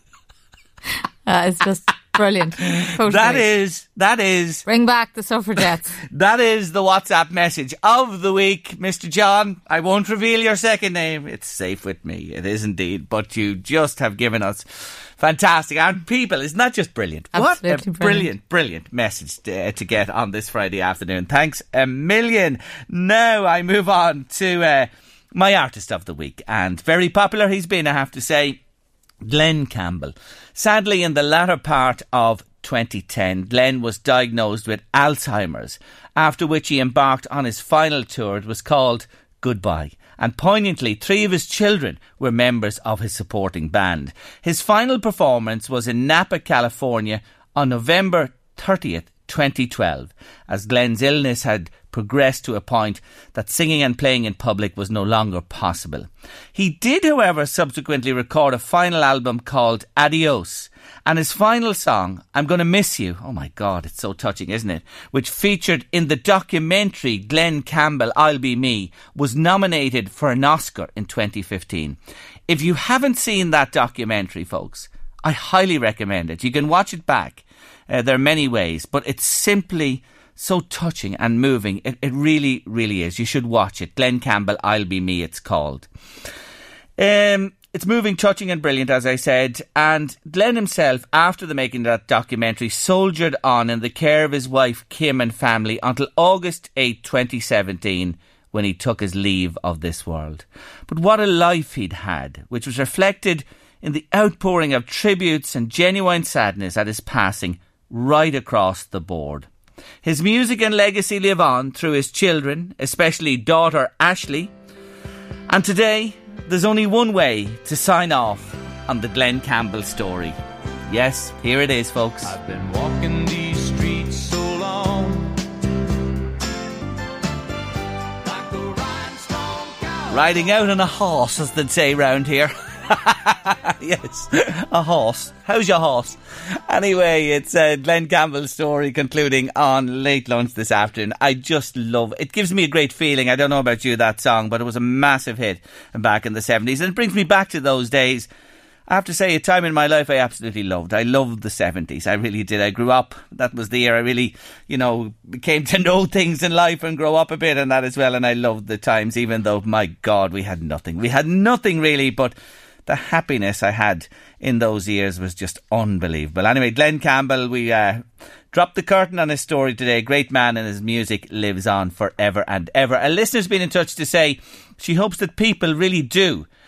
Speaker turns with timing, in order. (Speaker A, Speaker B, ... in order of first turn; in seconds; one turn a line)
Speaker A: 1.3-3.5
Speaker B: 2.6-4.7
Speaker A: 4.7-6.0
Speaker B: 6.1-14.6
Speaker B: 15.2-28.6
Speaker A: 17.3-18.3
Speaker B: 29.2-72.0
Speaker B: 72.5-85.9
Speaker B: 87.0-109.5
Speaker B: 110.0-114.5
Speaker B: 115.5-120.4
Speaker B: 120.9-122.3
Speaker C: 122.2-125.5
Speaker C: 128.2-130.6
Speaker B: 130.1-136.2
Speaker B: 136.7-148.3
Speaker B: 148.9-162.3
Speaker B: 162.9-176.5